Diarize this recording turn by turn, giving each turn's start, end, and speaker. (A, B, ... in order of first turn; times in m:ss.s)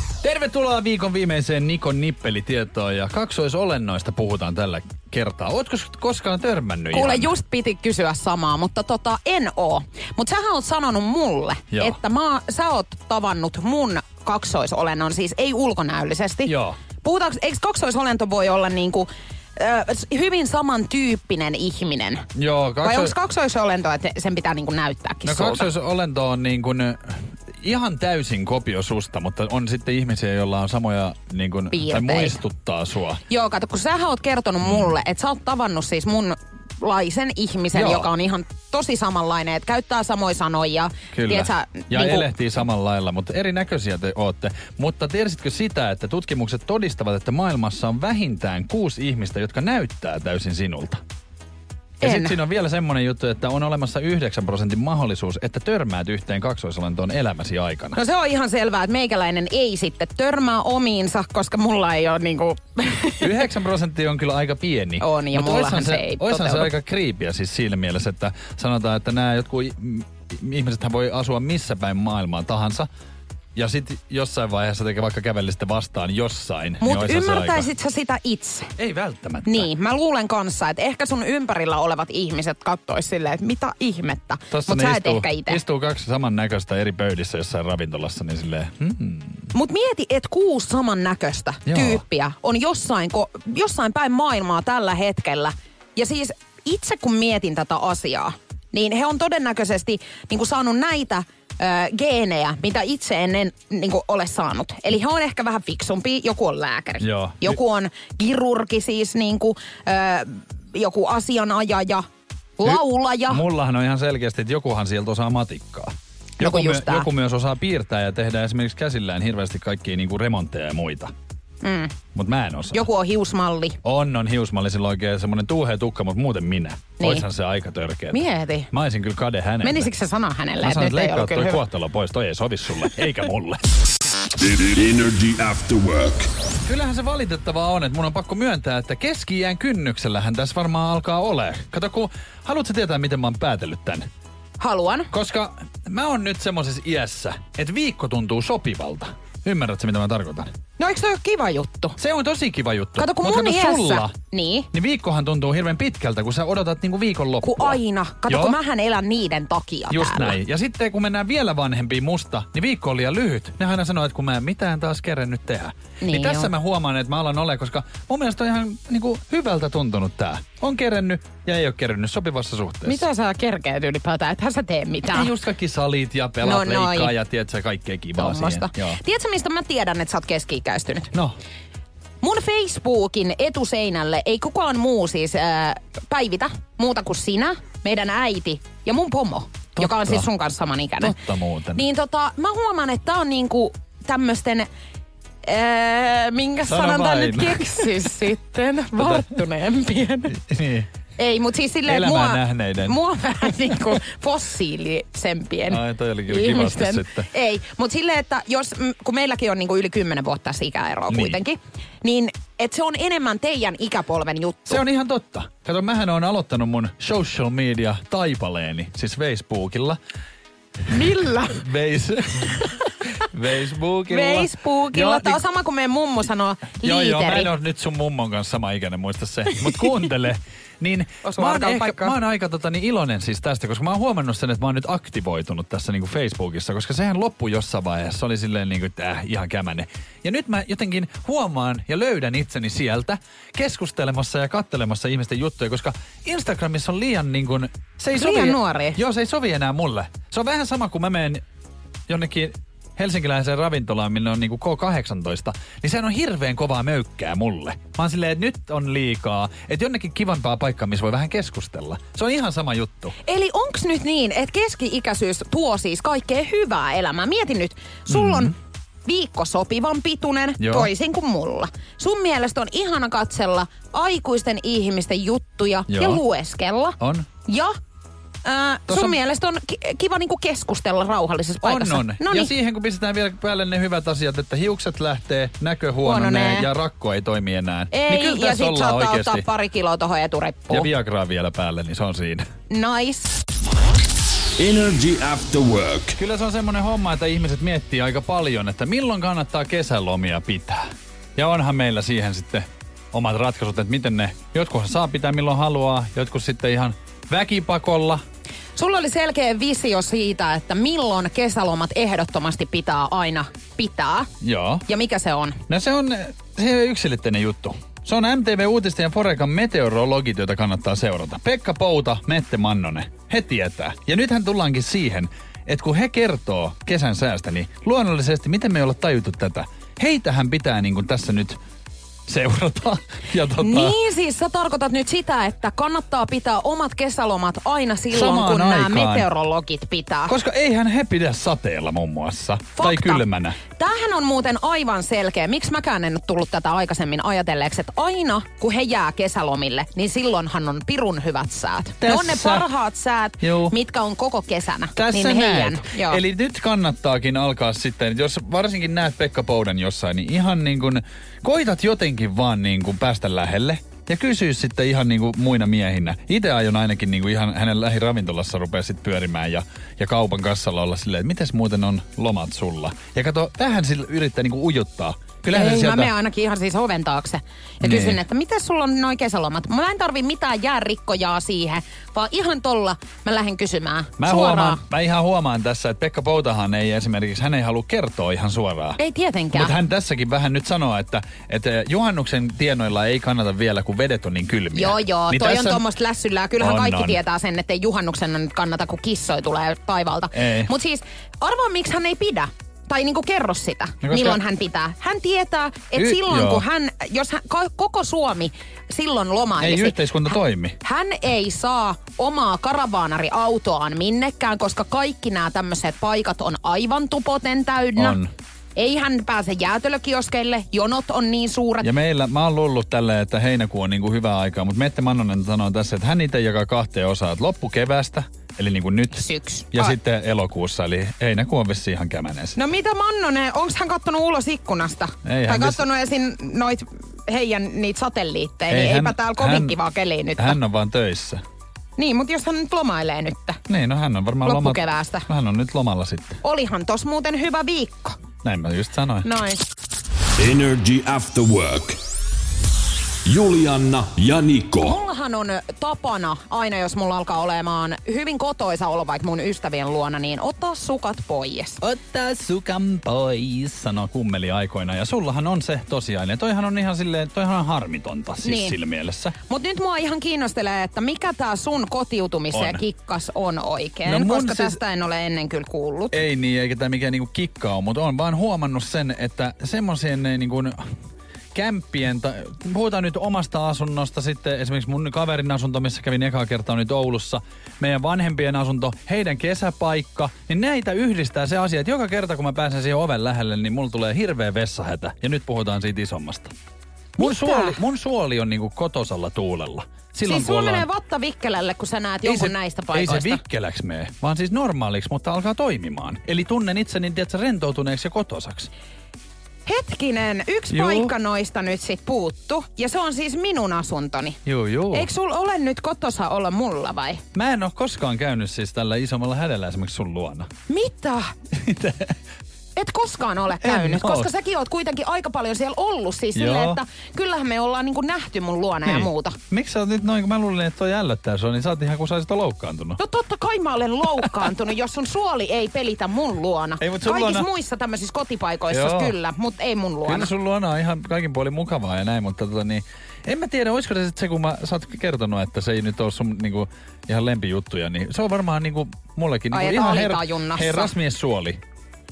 0:00.2-0:07.3 A
0:06.9-0:22.2 B
0:11.7-0:12.0 A
0:16.4-0:16.8 A
0:22.3-0:23.1 A
0:22.8-0:25.7 B
0:25.2-0:33.2 A
0:31.7-0:32.4 B
0:33.3-0:42.3 B
0:34.6-0:34.9 A
0:37.7-0:38.1 A
0:41.1-0:51.0 A
0:52.0-0:58.0 A
0:52.0-0:52.4 B
0:57.9-1:03.3 B
1:03.2-1:12.9 A
1:05.0-1:06.7 B
1:13.5-1:17.7 A
1:16.8-1:18.7 B
1:18.8-1:19.7 A
1:19.4-1:25.6 B
1:24.5-1:29.5 A
1:29.5-1:52.0 B
1:31.6-1:32.0 A
1:47.0-1:47.6 A
1:52.6-1:53.4 B
1:52.6-2:01.1 A
1:56.4-1:57.1 B
2:01.6-2:01.9 B
2:02.1-2:02.9 A
2:02.7-2:03.8 B
2:03.8-2:09.9 A
2:07.0-2:07.2 B
2:08.1-2:08.7 B
2:09.6-2:11.6 B
2:10.6-2:13.7 A
2:14.4-2:16.3 C
2:16.6-2:24.1 A
2:24.6-2:25.1 B
2:25.1-2:30.5 A
2:30.8-2:32.0 B
2:32.0-2:34.1 A
2:33.0-2:34.7 B
2:34.7-2:38.6 A
2:37.4-2:40.4 B
2:39.9-2:53.0 A
2:46.0-2:46.5 B
2:52.8-2:55.3 B
2:55.1-2:59.0 A
2:56.4-2:57.1 B
2:58.2-3:01.1 B
3:02.2-3:11.1 B
3:09.8-3:10.3 A
3:11.0-3:11.8 A
3:11.8-3:14.7 B
3:15.4-3:20.4 B
3:16.7-3:18.1 A
3:19.0-3:19.3 A
3:20.3-3:20.9 A
3:21.2-3:34.8 B
3:21.8-3:23.0 A
3:25.7-3:27.3 A
3:31.1-3:31.4 A
3:34.7-3:40.0 A
3:40.9-3:41.6 B
3:41.5-3:45.4 A
3:44.1-3:47.5 B
3:46.8-4:11.4 A
3:51.2-3:52.2 B
4:08.1-4:09.0 B
4:12.1-4:23.1 A
4:23.2-4:28.5 B
4:28.1-4:28.5 A
4:29.0-4:37.7 B
4:30.6-4:30.9 A
4:35.9-4:36.2 A
4:37.0-4:37.3 A
4:38.4-4:42.5 B
4:38.9-4:39.2 A
4:41.6-4:49.5 A
4:46.0-4:46.7 B
4:47.9-4:50.9 B
4:50.7-4:52.5 A
4:52.7-4:53.3 B
4:54.6-4:56.2 C
4:56.2-5:08.2 A
5:08.8-5:14.3 B
5:14.4-5:14.8 A
5:14.9-5:15.6 B
5:15.7-5:31.6 A
5:32.3-5:34.0 A
5:33.6-5:40.3 B
5:38.1-5:39.3 A
5:40.3-5:43.6 A
5:42.8-5:56.2 B
5:52.0-5:52.6 A
5:53.4-5:53.7 A
5:55.0-6:16.1 A
6:15.5-6:24.8 B
6:17.8-6:18.2 A
6:24.2-6:29.0 A
6:29.0-6:29.7 B
6:29.5-6:35.8 A
6:34.7-6:58.2 B
6:36.6-6:37.2 A
6:40.3-6:40.7 A
6:44.0-6:44.4 A
6:46.0-6:46.6 A
6:49.6-6:50.8 A
6:58.0-6:58.3 A
6:58.8-7:01.9 B
7:01.8-7:12.6 A
7:09.1-7:10.0 B
7:12.6-7:20.6 B
7:15.2-7:15.8 A
7:18.7-7:19.8 A
7:20.4-7:21.4 A
7:22.0-7:23.6 B
7:23.7-7:26.4 A
7:24.4-7:25.3 B
7:26.4-7:28.2 B
7:28.4-7:29.3 A
7:29.2-7:29.6 B
7:30.4-7:32.0 C
7:33.2-7:35.0 C
7:34.8-7:41.8 B
7:41.8-7:49.3 A
7:48.4-7:48.8 B
7:49.5-7:56.2 B
7:52.5-7:52.8 A
7:54.0-7:54.8 A
7:56.1-8:00.8 A
8:01.5-8:16.5 A
8:17.2-8:17.8 B
8:17.2-8:20.9 A
8:20.2-8:23.4 B
8:22.2-8:28.7 A
8:29.6-8:34.4 B
8:30.7-8:31.1 A
8:34.5-8:35.1 A
8:34.9-8:37.2 B
8:37.3-8:40.5 A
8:40.7-8:41.3 B
8:41.5-8:42.2 A
8:42.8-8:49.4 B
8:43.6-8:44.3 A
8:46.3-8:46.8 A
8:48.8-8:53.0 A
8:53.0-9:00.3 B
8:54.2-8:54.5 A
8:56.8-8:57.5 A
8:58.7-8:59.2 A
9:00.0-9:11.6 A
9:09.5-9:10.9 B